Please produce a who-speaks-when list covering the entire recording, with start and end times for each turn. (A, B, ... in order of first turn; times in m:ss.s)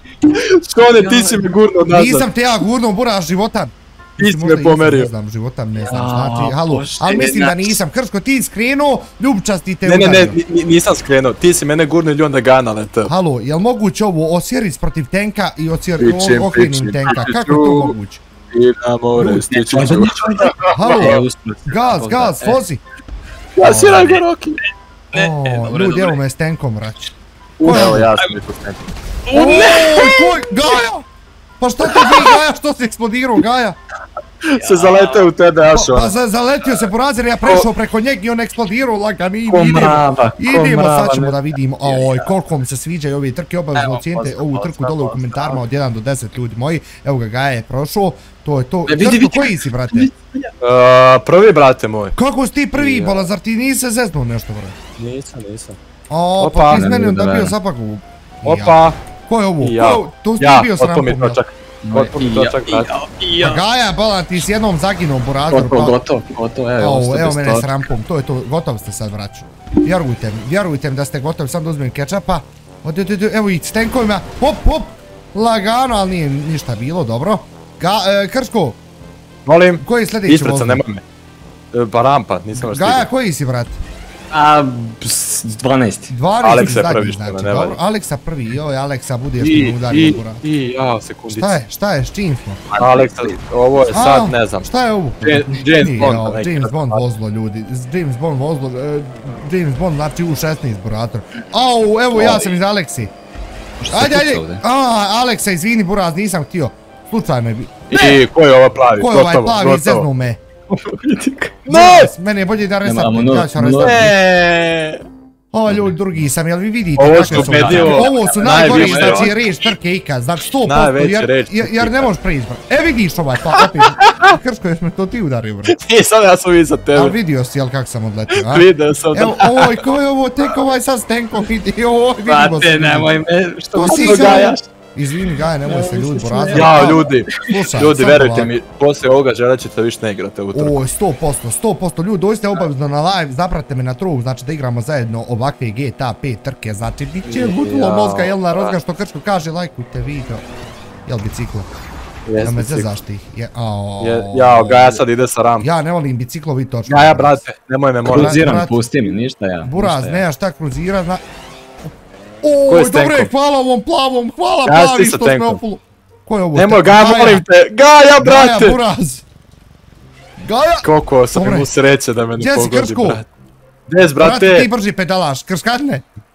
0:00.3-0:02.3 A
0:00.9-0:01.5 B
0:01.8-0:10.4 C
0:04.2-0:05.1 A
0:05.8-0:07.8 B
0:09.8-0:13.1 A
0:13.0-0:18.2 C
0:16.0-0:17.9 A
0:18.5-0:21.2 A
0:19.2-0:22.6 B
0:20.7-0:22.8 C
0:23.6-0:24.6 A
0:23.6-0:24.2 C
0:25.1-0:26.2 B
0:25.1-0:27.1 C
0:27.6-0:30.1 A
0:27.6-0:28.1 C
0:27.6-0:28.3 B
0:29.3-0:30.5 B
0:29.3-0:31.0 C
0:31.6-0:33.8 C
0:31.9-0:32.4 B
0:34.5-0:36.2 A
0:34.5-0:35.3 B
0:35.7-0:50.1 C
0:39.5-0:42.3 B
0:43.7-0:45.6 B
0:48.8-0:50.5 B
0:50.6-0:52.1 A
0:52.1-0:54.8 C
0:52.7-0:53.3 A
0:55.0-0:55.8 A
0:56.1-1:01.4 C
0:56.4-0:56.8 A
0:56.7-0:57.5 B
0:58.4-0:59.0 A
0:59.6-1:02.9 A
1:01.8-1:03.6 B
1:03.4-1:06.0 C
1:05.5-1:07.9 B
1:06.8-1:18.8 C
1:19.4-1:21.0 A
1:19.8-1:20.8 C
1:21.7-1:23.1 A
1:22.6-1:23.8 C
1:24.3-1:26.1 B
1:26.1-1:30.4 C
1:26.4-1:27.8 A
1:29.4-1:31.6 A
1:31.3-1:32.6 C
1:32.7-1:33.3 B
1:32.7-1:34.7 A
1:33.9-1:43.1 C
1:35.2-1:37.0 A
1:42.1-1:42.6 B
1:43.8-1:44.6 B
1:43.9-1:48.2 C
1:47.9-1:50.1 A
1:49.0-1:50.4 C
1:50.7-1:51.5 B
1:51.6-1:52.1 A
1:51.7-1:54.1 C
1:52.8-1:54.1 B
1:53.8-1:55.0 A
1:55.5-2:05.8 C
1:55.7-1:56.0 B
1:57.0-1:59.4 A
1:57.2-1:59.5 B
2:00.6-2:02.1 A
2:03.5-2:04.4 A
2:05.7-2:07.2 A
2:06.9-2:13.1 C
2:08.3-2:09.8 A
2:12.2-2:14.6 B
2:13.7-2:18.5 C
2:13.8-2:14.6 A
2:15.4-2:17.6 B
2:16.5-2:20.8 A
2:20.5-2:30.4 C
2:27.2-2:28.8 A
2:31.0-2:31.7 C
2:32.3-2:32.9 A
2:32.4-2:35.0 C
2:34.0-2:35.6 A
2:35.6-2:37.4 C
2:36.8-2:38.4 A
2:38.0-2:40.2 B
2:38.1-2:38.8 C
2:39.6-2:41.2 C
2:42.4-2:47.4 C
2:42.7-2:43.3 A
2:44.6-2:45.6 A
2:46.5-2:48.8 A
2:48.2-2:49.2 C
2:50.4-2:51.7 C
2:50.8-2:53.2 A
2:52.4-2:53.2 C
2:53.9-2:54.7 A
2:54.1-2:56.0 C